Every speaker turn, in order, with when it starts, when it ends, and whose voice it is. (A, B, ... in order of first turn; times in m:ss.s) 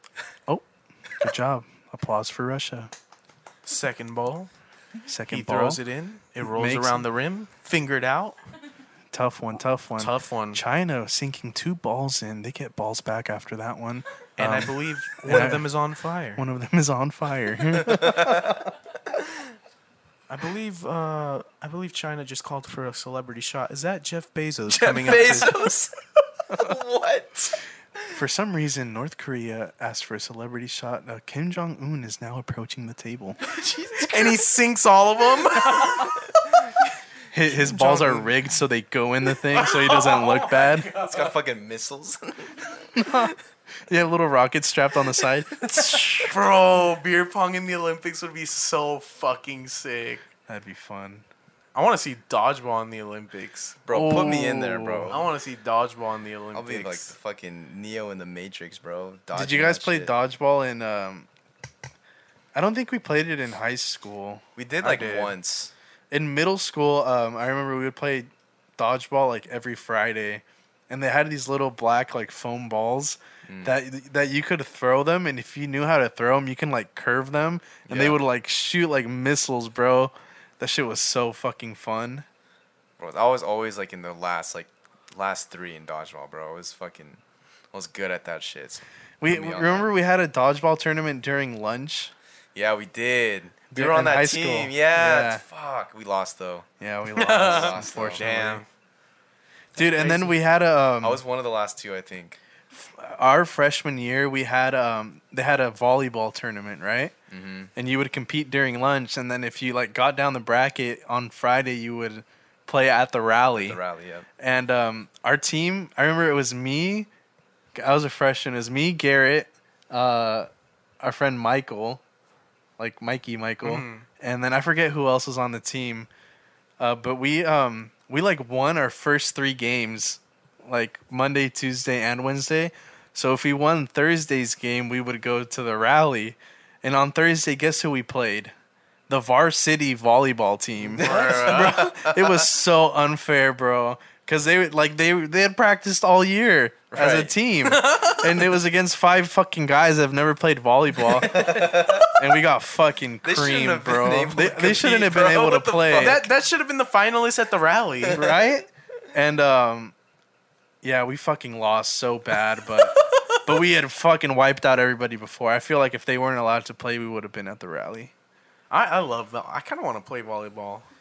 0:00.5-0:02.9 A
0:03.6-0:04.5 B
0:05.1-0:05.8 A
0:05.3-0:08.4 B
0:06.4-0:07.0 A
0:09.1-0:15.7 A
0:10.0-0:10.6 B
0:14.4-0:16.4 B
0:16.4-0:18.6 A
0:17.7-0:19.3 C
0:20.3-0:25.7 B
0:24.7-0:27.6 C
0:28.1-0:33.4 A
0:33.4-0:36.6 B
0:33.5-0:34.4 C
0:35.7-0:36.3 C
0:37.3-0:40.9 A
0:37.6-0:38.2 C
0:37.8-0:38.2 B
0:39.5-0:41.3 B
0:41.0-0:43.3 C
0:42.9-0:43.3 A
0:43.9-0:46.4 A
0:46.2-0:50.2 B
0:50.5-0:51.2 A
0:51.7-0:53.8 B
0:53.8-0:55.2 C
0:53.9-0:55.2 A
0:55.1-0:57.1 B
0:56.5-1:00.1 C
0:59.3-1:01.3 A
1:02.5-1:04.4 A
1:04.6-1:05.7 C
1:04.8-1:05.3 B
1:06.1-1:22.2 A
1:13.5-1:13.7 C
1:17.8-1:18.2 C
1:23.0-1:27.2 C
1:27.7-1:29.9 C
1:29.2-1:32.1 A
1:32.5-1:36.7 C
1:33.7-1:35.4 A
1:36.8-1:38.6 A
1:37.2-1:38.6 B
1:37.2-1:38.2 C
1:39.8-1:41.2 A
1:39.9-1:40.3 B
1:41.0-1:42.4 C
1:42.7-1:47.1 A
1:47.3-1:47.7 C
1:47.8-1:53.8 A
1:53.5-1:54.3 C
1:54.4-1:57.1 A
1:57.7-2:00.5 A
2:01.0-2:02.0 A
2:02.8-2:06.1 A
2:03.6-2:04.0 B
2:06.8-2:18.5 A
2:19.1-2:36.3 A
2:20.8-2:22.4 C
2:21.0-2:21.9 B
2:26.9-2:27.3 C
2:27.6-2:28.6 B
2:31.2-2:32.1 C
2:33.2-2:36.3 C
2:35.9-2:38.3 B
2:38.0-2:38.4 C
2:38.1-2:39.9 A
2:40.8-2:48.1 A
2:42.8-2:43.5 B
2:48.7-2:50.9 B